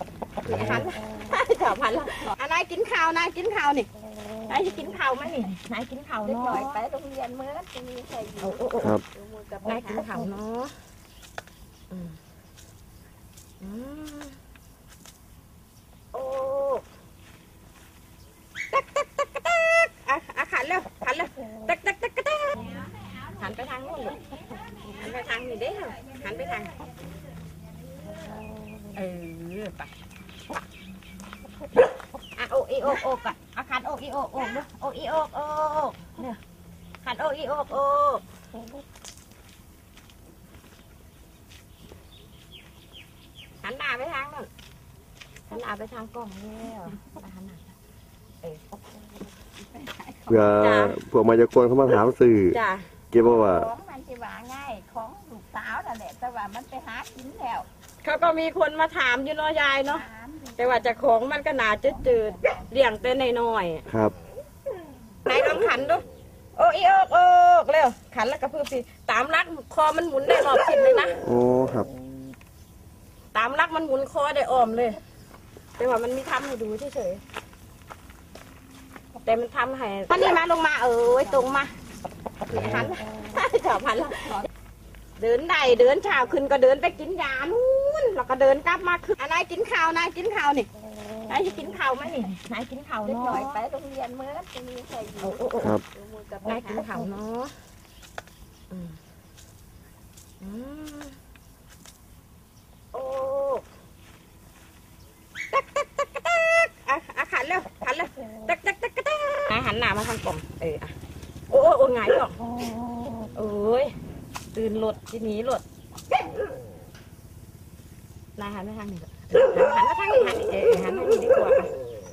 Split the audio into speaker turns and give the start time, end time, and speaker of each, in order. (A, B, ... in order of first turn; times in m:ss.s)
0:00.4-0:03.9 A
0:00.5-0:00.8 B
0:04.5-0:06.8 A
0:06.2-0:10.3 C
0:08.4-0:09.0 A
0:09.7-0:10.7 A
0:11.9-0:12.2 A
0:13.6-0:14.4 A
0:16.1-0:16.8 A
0:18.7-0:24.2 A
0:24.8-0:26.9 A
0:29.0-0:29.9 A
0:32.4-0:36.4 A
0:37.0-0:38.2 A
0:43.6-0:44.5 A
0:45.5-0:47.6 A
0:48.4-0:48.8 A
0:49.8-0:50.4 C
0:50.3-0:52.6 B
0:50.5-0:51.0 A
0:52.5-0:52.8 A
0:53.1-0:53.7 B
0:53.2-0:57.7 C
0:58.0-1:03.9 A
0:59.9-1:01.0 C
1:01.9-1:02.6 C
1:03.9-1:04.1 B
1:05.3-1:06.0 A
1:06.6-1:11.3 A
1:11.2-1:11.9 B
1:13.3-1:15.0 A
1:15.8-1:17.2 A
1:19.2-1:21.7 A
1:22.5-1:24.4 A
1:25.2-1:30.7 A
1:31.3-1:33.6 A
1:33.0-1:37.1 C
1:35.2-1:35.8 A
1:36.5-1:37.5 A
1:38.7-1:39.0 A
1:40.4-1:41.2 A
1:42.9-1:43.6 A
1:45.5-1:50.9 A
1:51.5-1:52.4 A
1:53.3-1:53.9 A
1:54.5-1:55.6 A
1:58.4-2:01.7 A